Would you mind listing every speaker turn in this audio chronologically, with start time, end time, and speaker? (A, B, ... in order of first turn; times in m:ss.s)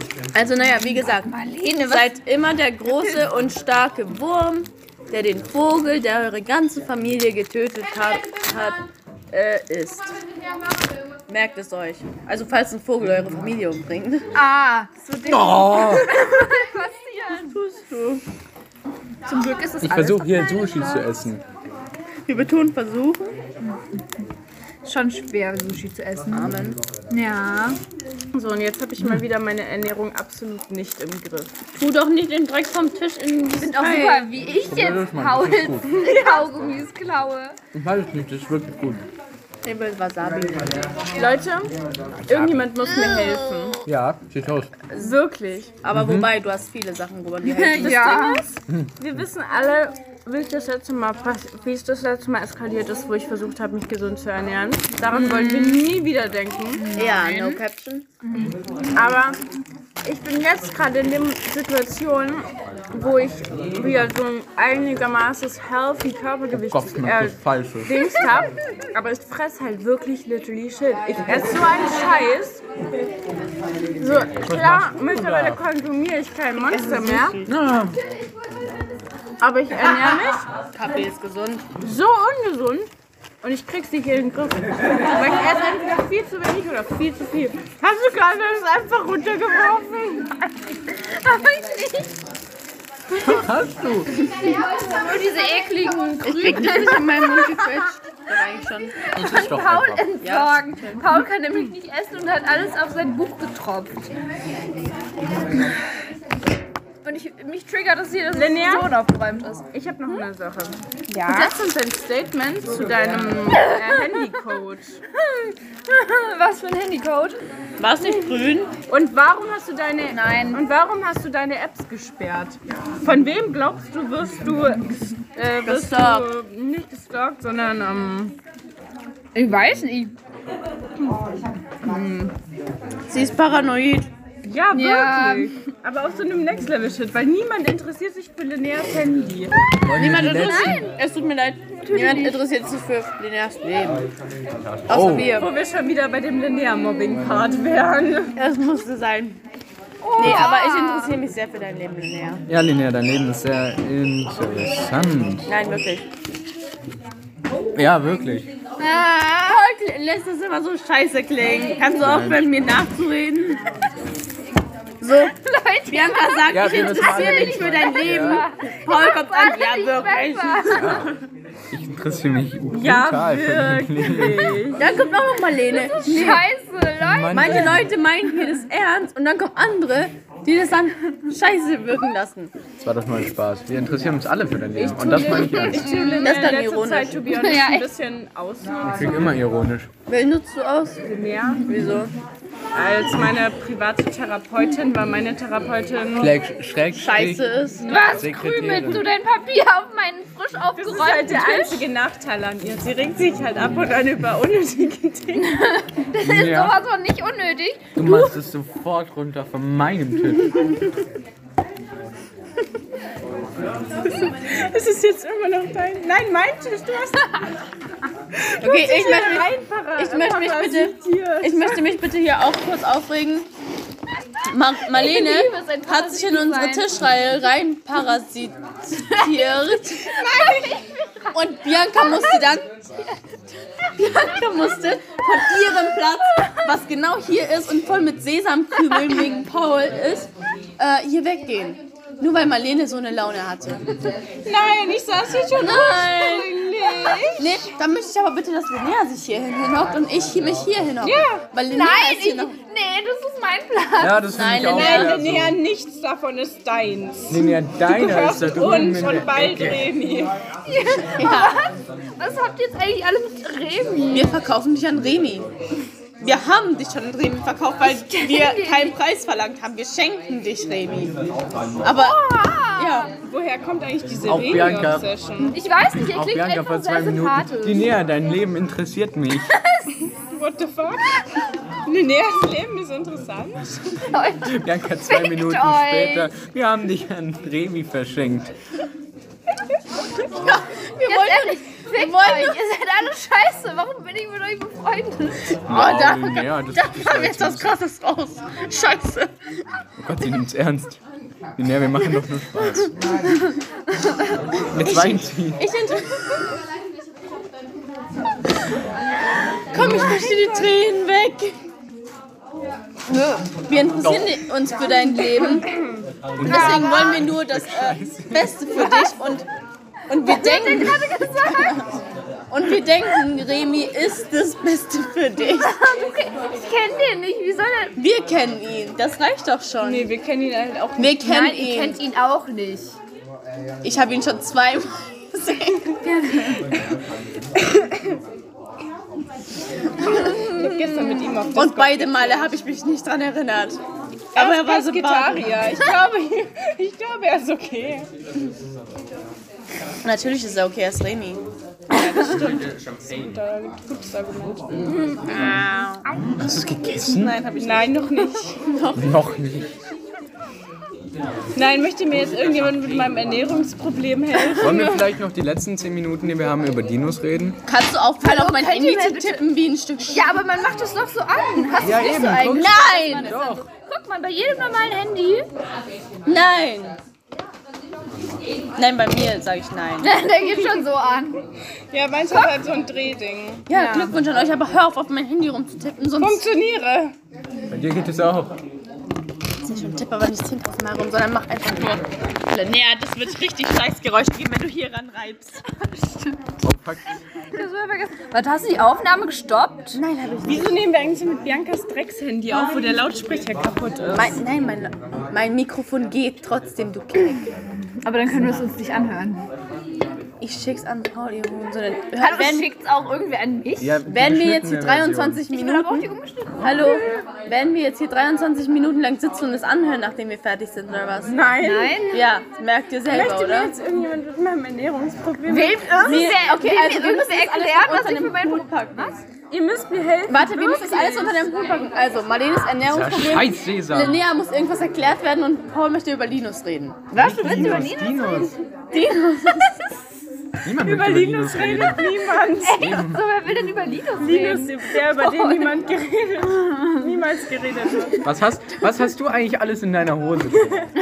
0:00.3-0:10.2 A
0:01.3-0:02.2 B
0:11.3-0:14.3 A
0:14.3-0:17.6 B
0:15.3-0:16.2 C
0:17.5-0:18.2 A
0:19.3-0:21.1 B
0:19.8-0:21.4 C
0:22.3-0:23.4 A
0:23.6-0:24.0 B
0:24.8-0:27.8 B
0:26.3-0:26.8 A
0:28.3-0:31.6 D
0:31.8-0:34.3 A
0:33.6-0:37.6 B
0:34.7-0:35.8 C
0:35.9-0:36.5 D
0:37.7-0:39.0 C
0:39.6-0:40.7 A
0:41.2-0:41.7 D
0:42.3-0:42.6 C
0:42.3-0:43.8 D
0:43.1-0:43.4 B
0:43.9-0:44.7 C
0:44.9-0:45.2 A
0:44.9-0:45.7 D
0:45.8-0:48.3 A
0:45.9-0:46.3 C
0:47.4-0:48.5 B
0:47.8-0:48.5 D
0:49.0-0:56.9 D
0:55.1-0:55.9 B
0:56.8-0:57.6 B
0:57.0-0:58.1 A
0:58.2-0:58.6 B
0:58.9-0:59.4 D
1:00.0-1:12.6 D
1:06.5-1:07.9 C
1:14.0-1:17.4 D
1:14.4-1:15.6 C
1:16.6-1:17.5 A
1:17.5-1:18.0 C
1:19.4-1:20.5 D
1:20.7-1:21.6 A
1:21.8-1:22.9 D
1:23.4-1:30.5 D
1:31.0-1:32.1 B
1:33.1-1:34.1 C
1:34.4-1:37.8 B
1:36.2-1:39.0 A
1:39.0-1:44.1 B
1:39.1-1:40.0 C
1:40.2-1:41.0 A
1:47.0-1:50.2 B
1:48.3-1:49.0 D
1:49.7-1:55.0 D
1:51.1-1:51.5 B
1:55.2-1:57.4 B
1:57.8-1:58.7 A
1:58.9-2:08.4 D
2:00.1-2:00.6 B
2:05.6-2:06.3 A
2:09.4-2:10.1 B
2:11.8-2:12.3 B
2:13.1-2:14.1 A
2:14.4-2:19.6 D
2:14.7-2:15.5 B
2:19.8-2:20.8 C
2:20.0-2:24.1 A
2:20.4-2:20.9 B
2:21.8-2:22.4 B
2:24.9-2:25.5 A
2:24.9-2:25.4 C
2:25.3-2:28.4 D
2:28.4-2:29.4 A
2:30.0-2:31.2 B
2:30.2-2:32.4 A
2:32.5-2:35.4 C
2:35.5-2:36.1 A
2:37.7-2:38.5 C
2:38.8-2:43.6 A
2:42.0-2:42.5 C
2:45.0-2:45.4 A
2:45.3-2:50.9 B
2:45.9-2:51.1 A
2:46.5-2:48.4 C
2:50.7-2:51.0 C
2:51.7-2:54.6 C
2:52.7-2:54.9 D
2:54.8-2:56.4 A
2:55.7-2:57.8 B
2:57.0-2:57.9 C
2:57.3-3:02.5 A
3:02.8-3:05.9 C
3:04.8-3:09.3 D
3:05.0-3:06.5 B
3:05.8-3:07.2 A
3:07.3-3:07.9 B
3:08.9-3:09.9 C
3:10.1-3:11.0 A
3:11.0-3:11.6 D
3:11.7-3:12.1 A
3:12.7-3:16.3 D
3:16.2-3:19.1 C
3:16.9-3:18.0 A
3:17.8-3:21.8 B
3:20.8-3:25.6 D
3:25.4-3:28.1 B
3:26.2-3:26.8 C
3:28.0-3:30.7 C
3:34.0-3:37.4 D
3:38.4-3:42.0 D
3:38.6-3:43.5 A
3:44.5-3:50.2 A
3:44.9-3:47.0 B
3:49.0-3:51.4 B
3:50.2-3:50.8 D
3:51.3-3:52.8 A
3:51.9-3:52.5 B
3:54.0-4:03.8 A
4:04.5-4:07.6 D
4:05.5-4:06.6 A
4:07.4-4:12.6 A
4:11.0-4:11.5 D
4:11.7-4:14.3 B
4:14.0-4:15.6 C
4:14.3-4:15.2 A
4:14.7-4:20.4 D
4:17.3-4:19.9 C
4:20.7-4:24.4 B
4:21.2-4:21.6 A
4:24.1-4:25.5 A
4:26.2-4:31.2 A
4:27.8-4:28.9 B
4:31.8-4:32.2 A
4:31.9-4:33.1 B
4:32.8-4:33.1 A
4:33.2-4:35.6 D
4:34.3-4:35.1 C
4:35.4-4:37.9 B
4:36.0-4:39.5 C
4:39.5-4:39.9 B
4:40.2-4:41.3 D
4:41.9-4:43.8 D
4:44.0-4:46.3 B
4:44.4-4:48.5 C
4:50.4-4:52.6 A
4:51.1-4:55.6 B
4:55.7-4:57.7 C
4:55.7-4:59.3 A
5:00.0-5:01.0 C
5:01.6-5:03.0 C
5:04.7-5:05.6 C
5:04.8-5:06.4 A
5:09.7-5:11.6 A
5:09.8-5:10.6 B
5:09.8-5:10.4 D
5:13.1-5:13.5 B
5:13.7-5:15.7 A
5:14.0-5:14.4 C
5:16.4-5:18.7 C
5:16.4-5:19.5 A
5:16.4-5:17.3 B
5:20.1-5:25.8 A
5:20.2-5:21.9 B
5:25.5-5:28.0 B
5:28.0-5:30.1 A
5:29.8-5:31.2 D
5:31.0-5:32.0 A
5:31.2-5:33.0 B
5:33.8-5:36.0 A
5:36.0-5:36.7 B
5:40.0-5:40.9 A
5:40.2-5:42.4 D
5:41.5-5:43.8 A
5:44.4-5:45.6 A
5:44.4-5:48.1 D
5:50.0-5:51.4 A
5:51.9-5:55.6 D
5:55.3-5:56.0 A
5:56.4-5:57.4 C
5:57.0-5:59.1 A
5:57.6-5:58.6 D
5:59.0-5:59.8 C
6:01.5-6:05.1 D
6:04.6-6:07.6 C
6:07.7-6:10.3 A
6:08.2-6:09.5 B
6:10.1-6:15.5 B
6:11.8-6:13.7 C
6:12.4-6:13.4 A
6:16.2-6:17.0 A
6:18.8-6:20.1 A
6:20.0-6:21.4 B
6:20.5-6:20.8 D
6:21.9-6:24.2 D
6:23.7-6:26.4 A
6:26.2-6:27.2 D
6:27.7-6:28.6 C
6:29.6-6:35.6 A
6:36.6-6:37.2 C
6:37.5-6:40.0 B
6:40.0-6:40.8 A
6:40.4-6:44.4 D
6:42.5-6:42.8 A
6:44.1-6:47.5 A
6:48.0-6:49.4 B
6:50.4-6:52.7 A
6:52.2-6:54.0 B
6:53.8-6:55.4 C
6:54.1-6:56.1 A
6:55.5-6:57.0 B
6:56.6-7:01.4 A
7:01.2-7:02.0 D
7:01.6-7:02.3 B
7:02.1-7:03.7 A
7:03.1-7:06.5 D
7:05.5-7:09.2 B
7:06.0-7:09.2 A
7:09.5-7:11.6 D
7:10.3-7:17.2 A
7:12.8-7:14.2 C
7:17.1-7:18.6 B
7:17.2-7:18.5 C
7:18.9-7:19.8 A
7:20.6-7:22.0 C
7:20.7-7:22.9 D
7:22.6-7:25.7 B
7:22.7-7:23.2 C
7:24.2-7:28.3 D
7:26.6-7:27.0 B
7:28.2-7:30.8 C